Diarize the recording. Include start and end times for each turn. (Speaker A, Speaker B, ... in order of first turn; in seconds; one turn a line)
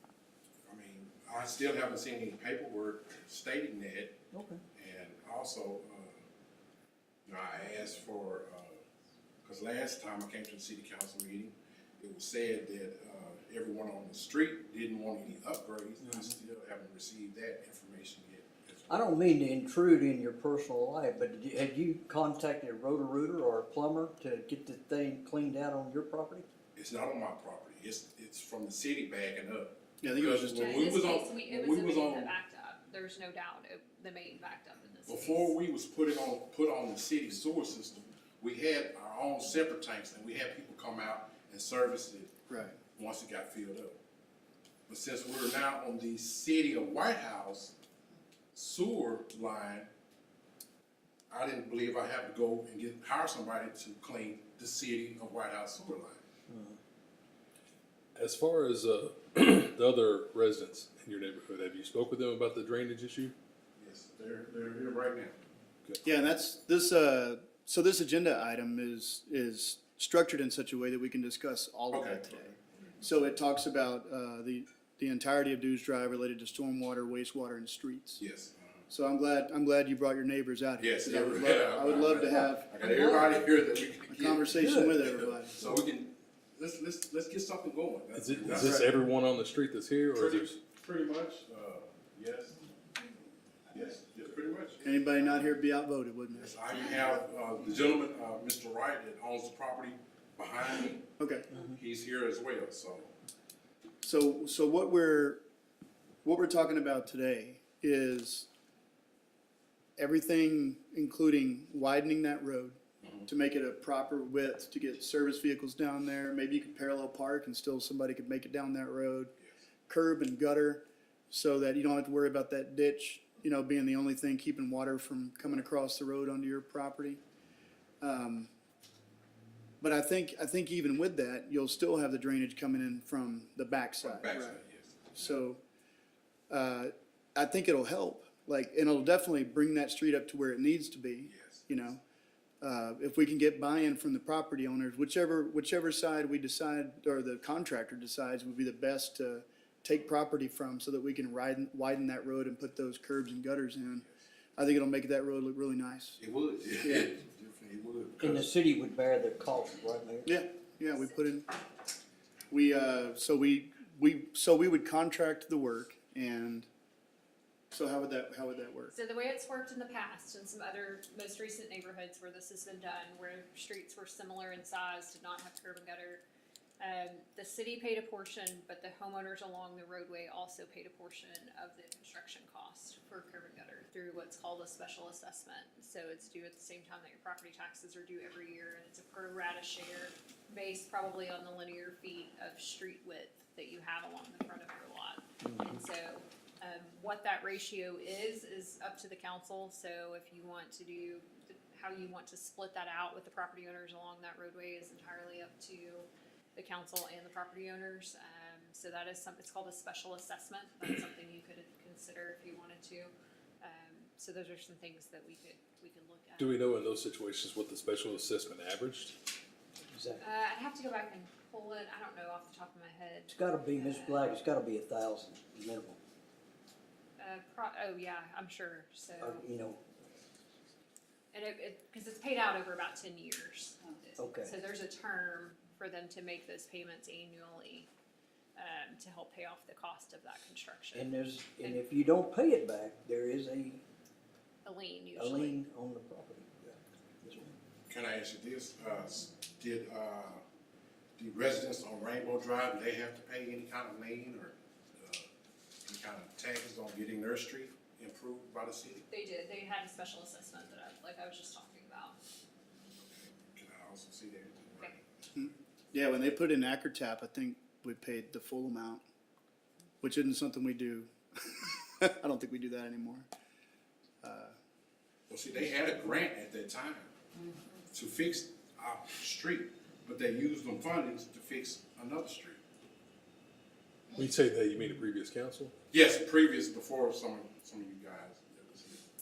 Speaker A: 0.7-4.2
Speaker B: 4.3-4.6
Speaker A: 4.8-6.2
Speaker A: 7.3-8.8
Speaker A: 9.4-19.1
Speaker B: 16.0-16.3
Speaker B: 18.9-26.4
Speaker A: 26.8-32.3
Speaker C: 30.0-30.8
Speaker D: 30.5-35.5
Speaker A: 35.1-42.3
Speaker C: 42.5-42.8
Speaker A: 43.0-44.0
Speaker A: 44.9-47.7
Speaker A: 48.5-49.9
Speaker A: 51.3-56.2
Speaker B: 56.5-56.8
Speaker E: 58.1-63.3
Speaker A: 63.8-65.4
Speaker C: 66.0-78.2
Speaker A: 71.9-72.6
Speaker A: 78.2-78.8
Speaker C: 78.9-82.7
Speaker A: 80.8-84.5
Speaker B: 82.2-83.4
Speaker C: 84.1-85.7
Speaker B: 84.5-85.0
Speaker A: 85.5-88.8
Speaker E: 88.1-90.5
Speaker A: 90.1-92.6
Speaker A: 93.7-94.8
Speaker C: 94.8-96.5
Speaker A: 96.4-101.0
Speaker C: 101.2-101.5
Speaker A: 101.6-103.1
Speaker C: 104.0-105.4
Speaker C: 106.2-108.5
Speaker C: 110.0-119.3
Speaker C: 119.9-127.2
Speaker C: 128.0-128.5
Speaker C: 129.8-134.6
Speaker A: 134.0-135.0
Speaker C: 135.1-135.6
Speaker C: 136.5-142.0
Speaker A: 141.2-141.7
Speaker C: 142.6-154.1
Speaker C: 154.6-156.2
Speaker A: 156.2-158.5
Speaker C: 156.8-157.1
Speaker B: 158.2-160.3
Speaker C: 160.2-161.5
Speaker C: 162.5-166.7
Speaker C: 167.7-168.9
Speaker D: 168.9-176.2
Speaker D: 176.8-216.6
Speaker B: 195.4-195.7
Speaker E: 216.4-219.2
Speaker B: 219.9-220.2
Speaker D: 220.2-224.3
Speaker B: 223.3-226.0
Speaker D: 227.2-229.4
Speaker B: 229.2-229.8
Speaker D: 231.3-237.9
Speaker B: 234.2-234.6
Speaker D: 238.6-241.8
Speaker B: 240.9-243.8
Speaker D: 244.6-245.6
Speaker B: 245.2-247.6
Speaker A: 247.9-250.4
Speaker A: 251.2-255.3
Speaker A: 255.8-259.0
Speaker D: 259.1-262.2
Speaker A: 263.5-265.0
Speaker C: 265.4-269.0
Speaker C: 270.0-273.3
Speaker C: 274.2-274.5
Speaker A: 275.3-277.1
Speaker A: 277.9-282.6
Speaker E: 284.1-285.8
Speaker A: 285.9-289.0